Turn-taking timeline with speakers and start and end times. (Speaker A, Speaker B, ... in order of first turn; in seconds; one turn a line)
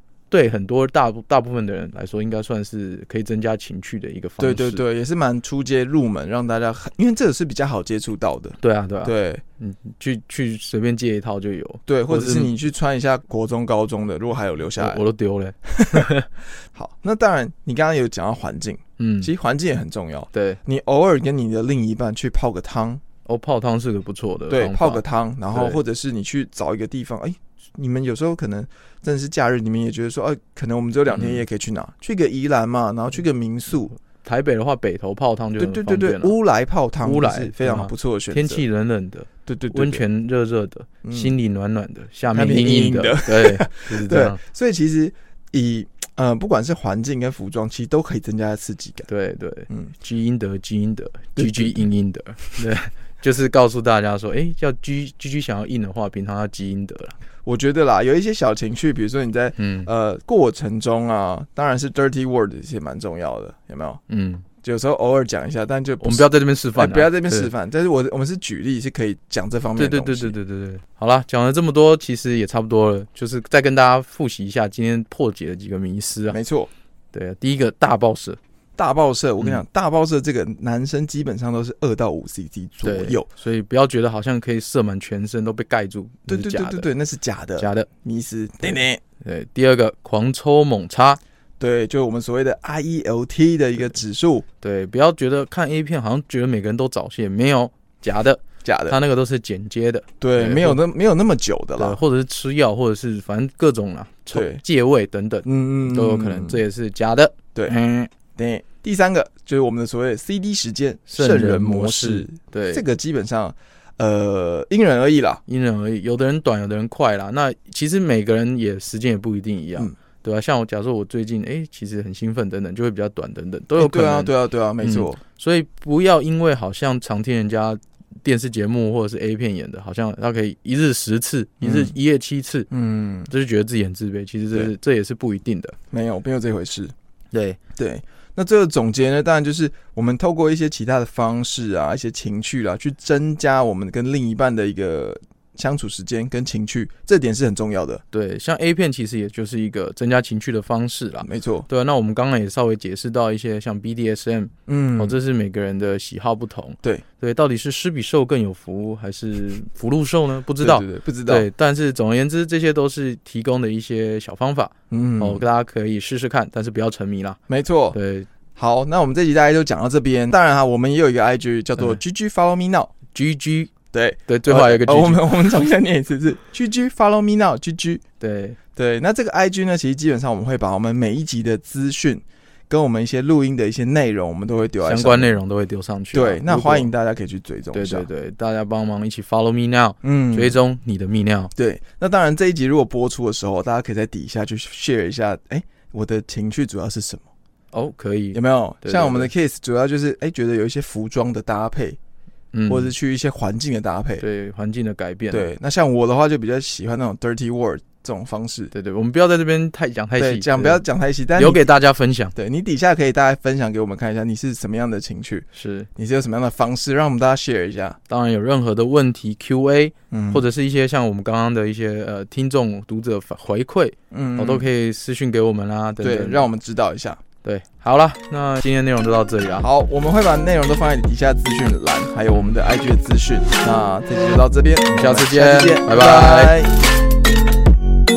Speaker A: 0.3-4.8
Speaker B: 4.4-9.4
Speaker A: 8.6-12.5
Speaker B: 11.9-15.0
Speaker A: 14.8-16.3
Speaker B: 15.7-16.1
Speaker B: 16.7-23.0
Speaker A: 19.0-19.3
Speaker A: 20.3-20.6
Speaker A: 23.2-25.8
Speaker B: 24.5-34.0
Speaker A: 31.1-31.4
Speaker A: 34.2-36.3
Speaker B: 35.6-38.6
Speaker A: 37.0-44.4
Speaker B: 39.5-40.0
Speaker B: 41.0-41.3
Speaker B: 42.3-49.1
Speaker A: 49.1-57.1
Speaker B: 51.4-51.9
Speaker B: 57.4-64.0
Speaker A: 59.6-59.9
Speaker A: 64.1-64.5
Speaker B: 64.6-70.3
Speaker A: 66.0-67.5
Speaker A: 69.8-76.4
Speaker B: 76.3-76.7
Speaker A: 77.1-78.4
Speaker B: 78.8-83.3
Speaker A: 82.8-86.9
Speaker B: 86.3-89.0
Speaker A: 87.6-87.9
Speaker A: 89.2-91.2
Speaker B: 91.6-94.5
Speaker A: 94.6-100.8
Speaker B: 98.6-99.0
Speaker B: 100.2-102.0
Speaker A: 101.8-108.1
Speaker B: 104.3-104.6
Speaker B: 105.4-106.6
Speaker B: 108.3-115.4
Speaker A: 111.1-112.8
Speaker A: 115.5-132.7
Speaker B: 123.8-125.2
Speaker B: 131.6-131.9
Speaker B: 132.7-133.3
Speaker A: 133.3-135.8
Speaker B: 135.9-136.9
Speaker A: 137.3-137.6
Speaker B: 137.8-148.0
Speaker A: 148.1-167.4
Speaker B: 151.2-151.7
Speaker B: 154.7-155.2
Speaker B: 160.6-161.5
Speaker B: 164.9-165.4
Speaker B: 167.5-168.0
Speaker A: 167.9-168.3
Speaker B: 168.6-172.9
Speaker A: 173.1-173.7
Speaker B: 173.9-178.0
Speaker A: 174.3-175.4
Speaker A: 178.2-178.6
Speaker B: 178.8-185.4
Speaker A: 184.8-186.9
Speaker B: 186.1-188.1
Speaker A: 187.7-191.5
Speaker B: 190.0-190.6
Speaker B: 191.6-197.3
Speaker A: 197.7-199.3
Speaker B: 198.3-202.0
Speaker A: 202.5-202.9
Speaker B: 202.7-204.2
Speaker A: 204.2-205.5
Speaker B: 205.3-208.7
Speaker A: 208.7-210.8
Speaker B: 210.2-211.7
Speaker A: 211.3-212.3
Speaker B: 212.3-218.0
Speaker A: 215.5-215.9
Speaker A: 218.1-226.5
Speaker B: 220.1-220.4
Speaker B: 224.1-224.7
Speaker B: 226.0-227.2
Speaker A: 227.4-229.7
Speaker B: 229.6-236.7
Speaker A: 234.9-236.6